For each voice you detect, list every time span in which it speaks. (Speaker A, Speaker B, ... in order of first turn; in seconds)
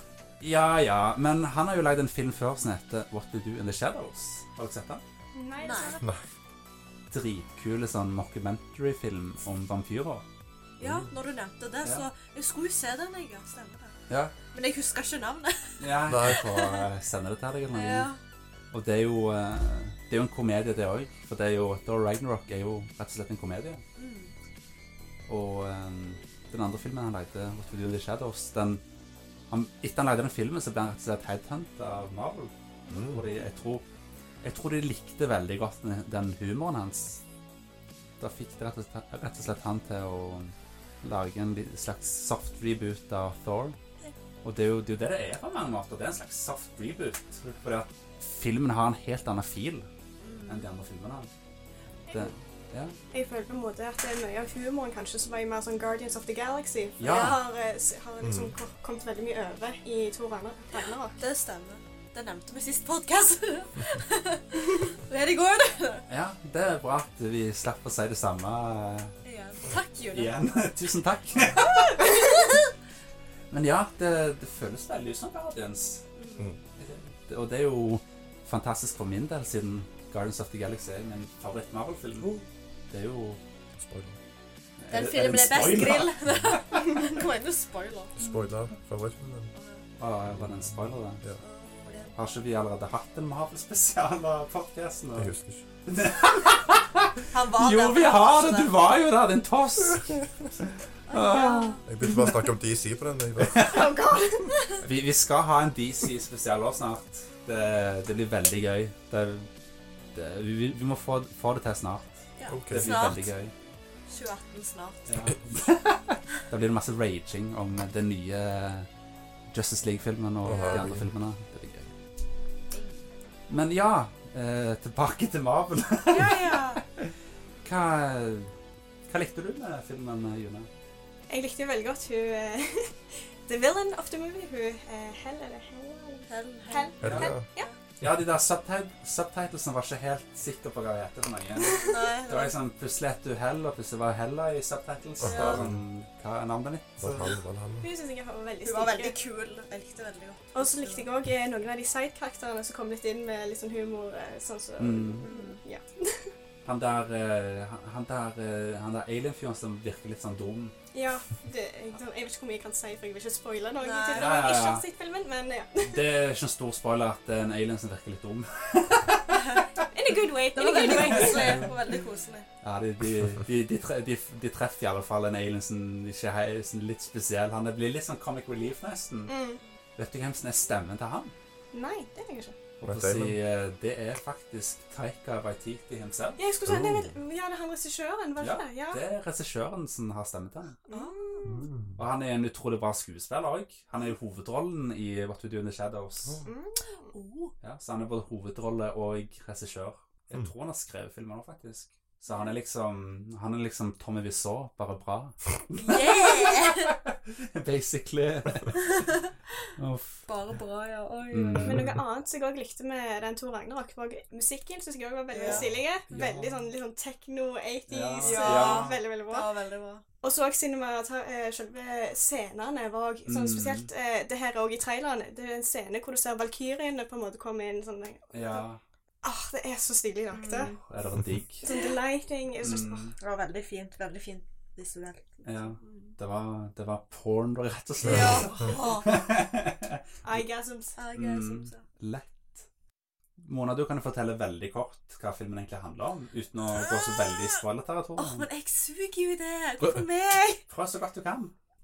Speaker A: 0.4-5.0, 7.1-10.2, 14.1-14.3, 15.8-18.1, 18.7-23.8, 25.3-28.8, 29.5-33.9, 34.4-37.2, 38.2-43.8, 44.4-49.9, 50.5-51.3, 52.1-53.0, 57.0-57.4, 66.1-69.1, 70.1-72.1, 73.5-76.0, 76.8-83.4, 84.8-87.0, 90.0-91.2, 92.2-95.3, 95.9-101.8, 103.4-103.8, 104.8-109.5, 110.1-113.5, 115.1-118.9, 119.5-121.9, 123.5-127.1, 127.6-128.5, 129.1-130.7, 137.0-137.3, 138.0-147.4, 154.8-155.3, 156.6-160.8, 164.1-164.8, 165.8-169.5, 170.9-171.7, 172.6-179.3, 180.0-181.3, 182.8-186.4, 188.4-190.8, 192.0-196.4, 197.6-209.1, 209.8-210.3, 211.3-212.0, 215.4-216.7, 217.9-219.0, 223.3-223.9, 228.3-228.8, 230.8-231.7, 232.6-233.1, 235.4-240.4, 241.1-242.6, 243.4-248.5, 250.7-251.5
Speaker B: 5.3-6.0, 53.1-61.2, 103.5-104.8, 131.3-137.7, 141.6-142.1, 147.8-149.2, 150.6-156.3, 160.9-166.1, 169.9-171.7, 179.3-179.6, 181.7-182.6, 186.4-189.0, 190.9-191.6, 196.4-197.1, 211.6-219.5, 220.2-228.6, 229.2-230.8, 231.6-233.1, 240.2-241.1
Speaker C: 5.6-6.0, 10.8-13.9, 14.5-16.9, 17.7-18.2, 23.9-24.3, 50.2-50.7, 57.0-57.4, 61.2-66.1, 69.2-70.3, 71.7-72.6, 76.2-76.5, 84.9-88.2, 89.5-89.9, 91.4-92.2, 97.3-98.7, 101.1-101.9, 112.4-113.3, 114.1-115.1, 120.5-120.8, 122.7-123.0, 126.1-126.8, 136.3-137.7, 141.8-142.6, 145.3-145.6, 148.6-151.1, 155.2-155.6, 163.8-164.6, 169.3-169.7, 170.5-172.5, 190.9-191.5, 197.1-197.5, 205.8-206.9, 210.3-211.8, 215.3-215.7, 218.2-220.0, 230.3-230.8, 233.2-236.1, 238.0-239.2, 241.0-241.8, 246.7-247.6, 248.2-250.6
Speaker D: 10.8-11.1, 16.1-16.4, 32.9-33.2, 58.2-58.5, 83.8-84.2, 88.2-89.5, 90.3-91.4, 95.2-95.6, 101.9-103.6, 112.5-113.0, 120.4-121.1, 137.0-137.4, 145.2-145.8, 147.0-147.9, 182.8-183.4, 186.6-187.1, 191.4-192.0, 238.0-238.7